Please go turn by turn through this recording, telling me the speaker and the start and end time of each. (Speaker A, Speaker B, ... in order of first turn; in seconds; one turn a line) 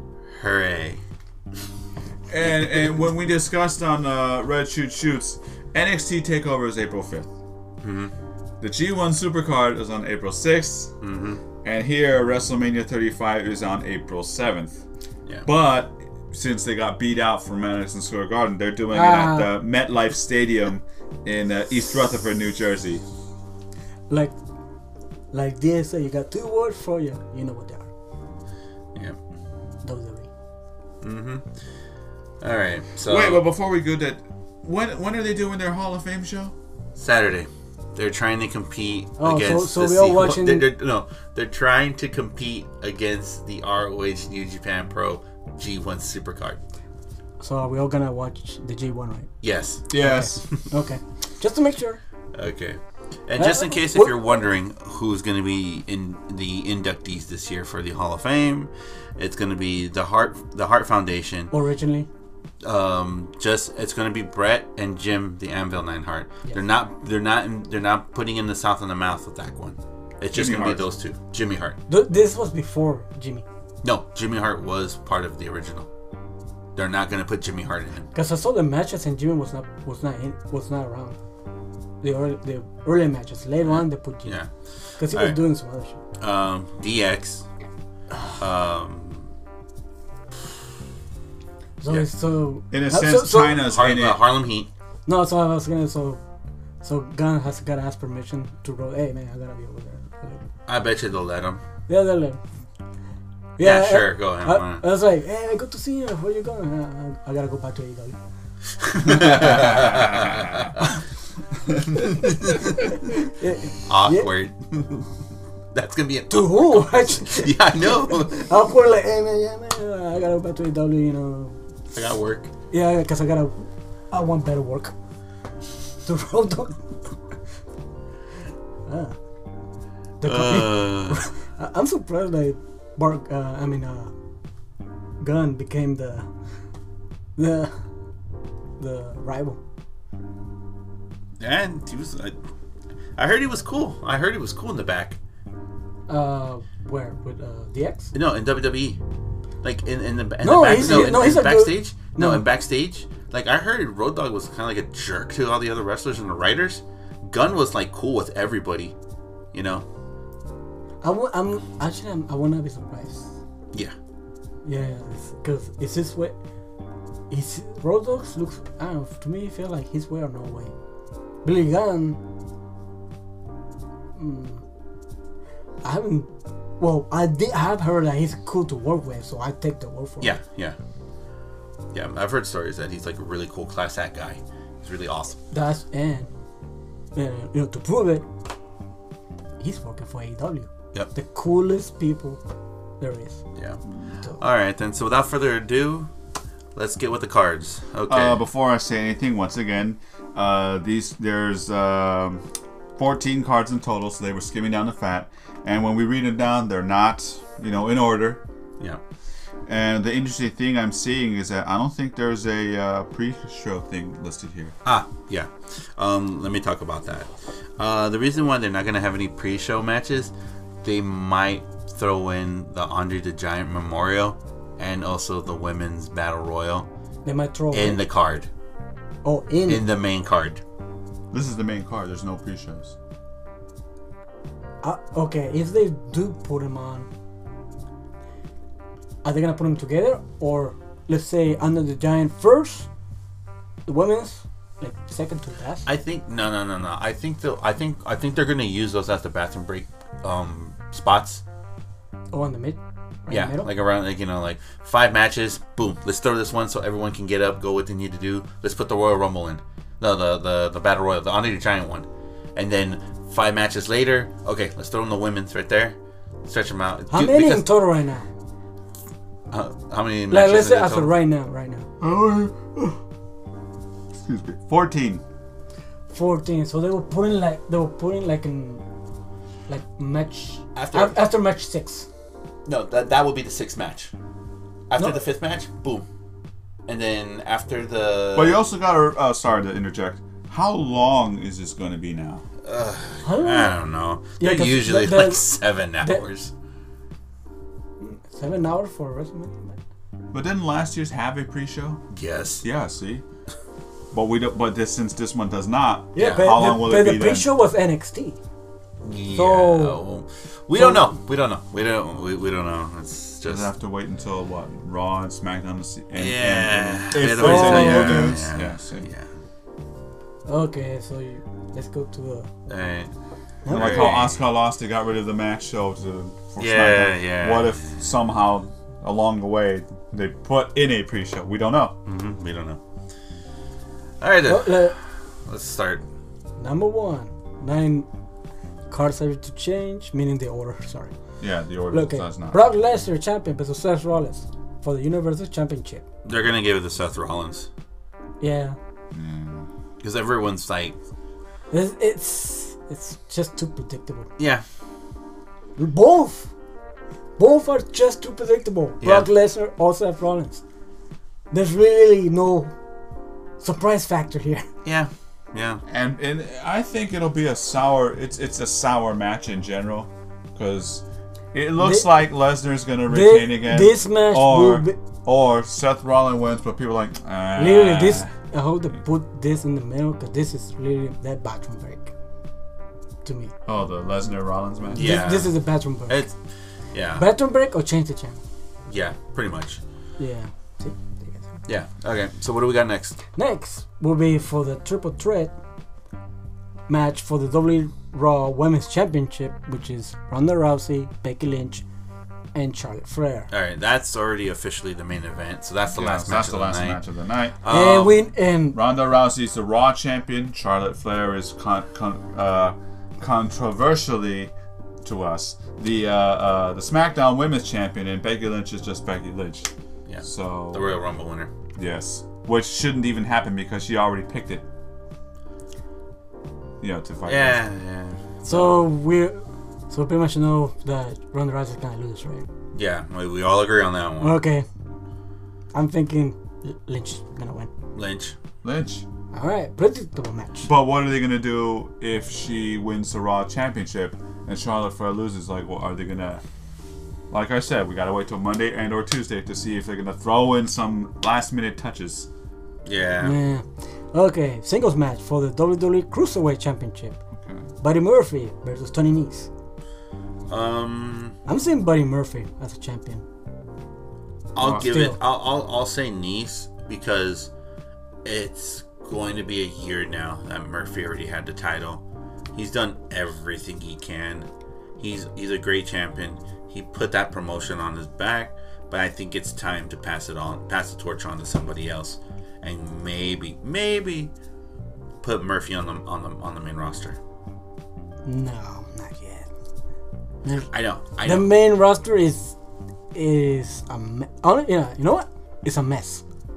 Speaker A: 0.3-1.0
Speaker B: 2.3-7.3
Speaker A: 7.8-8.1
Speaker B: 8.6-10.9
Speaker A: 11.0-11.4
Speaker B: 11.6-14.8
Speaker B: 15.4-23.1
Speaker C: 18.9-19.5
Speaker C: 24.1-24.4
Speaker C: 25.3-27.9
Speaker C: 29.8-30.3
Speaker A: 31.0-31.5
Speaker A: 32.4-33.4
Speaker B: 33.0-36.5
Speaker A: 37.0-46.6
Speaker C: 39.2-40.7
Speaker C: 47.4-49.3
Speaker A: 49.4-49.9
Speaker B: 49.9-50.5
Speaker C: 50.0-52.0
Speaker A: 52.3-61.5
Speaker C: 53.4-54.2
Speaker C: 61.5-62.1
Speaker A: 62.6-71.8
Speaker B: 70.3-70.8
Speaker C: 71.9-73.5
Speaker A: 73.8-75.9
Speaker A: 76.8-78.1
Speaker C: 78.1-81.2
Speaker C: 82.0-84.4
Speaker A: 83.6-85.4
Speaker C: 85.0-86.0
Speaker A: 86.2-87.5
Speaker A: 88.4-89.3
Speaker C: 91.8-93.6
Speaker B: 92.7-94.2
Speaker A: 93.5-94.7
Speaker C: 95.1-96.2
Speaker C: 96.8-100.5
Speaker A: 100.7-101.6
Speaker C: 101.9-102.4
Speaker C: 103.6-108.2
Speaker A: 103.6-104.8
Speaker A: 108.8-110.9
Speaker B: 109.1-110.7
Speaker A: 111.9-113.1
Speaker C: 112.8-114.3
Speaker A: 113.8-115.1
Speaker A: 115.7-118.5
Speaker C: 116.3-121.6
Speaker A: 121.9-122.5
Speaker C: 122.7-124.9
Speaker C: 126.0-126.8
Speaker C: 128.9-129.2
Speaker C: 130.2-134.1
Speaker A: 130.2-131.2
Speaker C: 135.2-136.3
Speaker C: 137.4-137.8
Speaker C: 138.8-139.6
Speaker A: 141.4-142.3
Speaker A: 143.2-145.2
Speaker C: 146.1-148.1
Speaker A: 148.1-149.0
Speaker A: 149.6-159.0
Speaker C: 150.4-152.4
Speaker A: 159.5-159.9
Speaker C: 161.0-163.3
Speaker C: 164.7-166.4
Speaker C: 167.3-170.7
Speaker C: 171.4-172.2
Speaker C: 174.2-174.6
Speaker C: 175.8-180.4
Speaker A: 180.2-180.8
Speaker A: 181.9-185.4
Speaker C: 185.5-186.3
Speaker C: 187.2-188.3
Speaker C: 189.6-192.4
Speaker C: 193.0-193.4
Speaker A: 194.4-196.1
Speaker A: 196.8-198.4
Speaker B: 198.1-202.4
Speaker B: 203.0-208.4
Speaker B: 209.7-214.8
Speaker A: 214.8-220.3
Speaker A: 220.8-226.9
Speaker C: 227.2-228.0
Speaker A: 227.7-228.5
Speaker C: 229.2-229.8
Speaker A: 229.7-230.6
Speaker B: 231.3-232.9
Speaker C: 234.8-237.1
Speaker C: 239.2-242.9
Speaker C: 243.9-245.9
Speaker A: 245.9-251.4
Speaker C: 252.3-253.7
Speaker A: 253.3-267.6
Speaker C: 267.1-268.3
Speaker A: 269.5-271.1
Speaker C: 270.3-271.9
Speaker B: 272.0-272.9
Speaker B: 274.2-275.2
Speaker C: 276.1-278.8
Speaker C: 279.7-282.1
Speaker A: 280.8-281.2
Speaker A: 282.7-284.1
Speaker A: 284.9-286.1
Speaker A: 286.9-288.6
Speaker B: 288.4-292.4
Speaker A: 292.6-296.5
Speaker C: 293.2-293.8
Speaker C: 294.4-296.2
Speaker C: 298.0-299.8
Speaker B: 300.3-302.0
Speaker A: 302.1-302.6
Speaker B: 302.6-303.2
Speaker B: 304.1-307.5
Speaker C: 306.1-308.4
Speaker A: 306.2-306.4
Speaker A: 309.0-313.7
Speaker C: 309.3-310.0
Speaker C: 310.8-311.1
Speaker B: 313.5-319.1
Speaker A: 316.1-319.3
Speaker C: 317.4-318.4
Speaker C: 320.5-322.5
Speaker A: 322.7-323.1
Speaker C: 323.6-324.2
Speaker A: 323.7-324.3
Speaker B: 323.7-332.0
Speaker A: 326.6-328.0
Speaker A: 332.1-332.8
Speaker A: 334.2-336.0
Speaker C: 334.5-334.9
Speaker C: 336.6-338.1
Speaker C: 338.9-341.1
Speaker B: 341.4-342.6
Speaker C: 341.9-346.0
Speaker A: 346.2-347.7
Speaker C: 348.4-348.8
Speaker B: 349.1-349.7
Speaker A: 350.0-351.0
Speaker C: 351.7-354.3
Speaker A: 354.4-354.6
Speaker C: 355.8-356.5
Speaker C: 357.4-360.6
Speaker A: 359.0-359.3
Speaker C: 361.5-362.7
Speaker C: 363.6-364.7
Speaker A: 364.9-365.8
Speaker B: 365.9-378.3
Speaker C: 371.8-372.1
Speaker C: 373.1-375.0
Speaker C: 377.6-382.1
Speaker C: 383.2-383.5
Speaker B: 383.7-385.2
Speaker C: 384.9-386.2
Speaker A: 385.0-386.4
Speaker A: 386.9-387.3
Speaker C: 387.2-388.4
Speaker A: 388.9-389.8
Speaker C: 390.2-391.5
Speaker A: 391.7-393.2
Speaker C: 393.4-395.5
Speaker C: 396.9-401.9
Speaker C: 402.5-403.5
Speaker A: 403.5-407.0
Speaker B: 405.9-407.6
Speaker A: 407.6-408.2
Speaker C: 407.7-408.8
Speaker B: 408.7-414.5
Speaker B: 415.0-419.7
Speaker A: 420.1-421.5
Speaker B: 420.2-420.9
Speaker B: 421.8-424.6
Speaker B: 426.8-427.6
Speaker A: 427.2-428.2
Speaker C: 428.4-432.5
Speaker A: 432.7-434.4
Speaker C: 434.2-434.7
Speaker C: 435.7-437.7
Speaker A: 437.9-438.4
Speaker B: 438.6-439.1
Speaker C: 439.3-440.7
Speaker B: 440.6-446.4
Speaker B: 447.3-452.3
Speaker A: 452.9-453.4
Speaker C: 453.2-457.2
Speaker B: 457.4-457.7
Speaker C: 457.8-459.5
Speaker A: 460.5-461.4
Speaker C: 461.5-463.2
Speaker A: 464.6-467.5
Speaker B: 464.6-464.9
Speaker C: 464.7-465.2
Speaker A: 468.2-472.0
Speaker A: 472.5-484.3
Speaker A: 485.2-487.2
Speaker C: 488.2-489.5
Speaker A: 490.7-491.5
Speaker C: 491.2-492.6
Speaker C: 493.1-496.2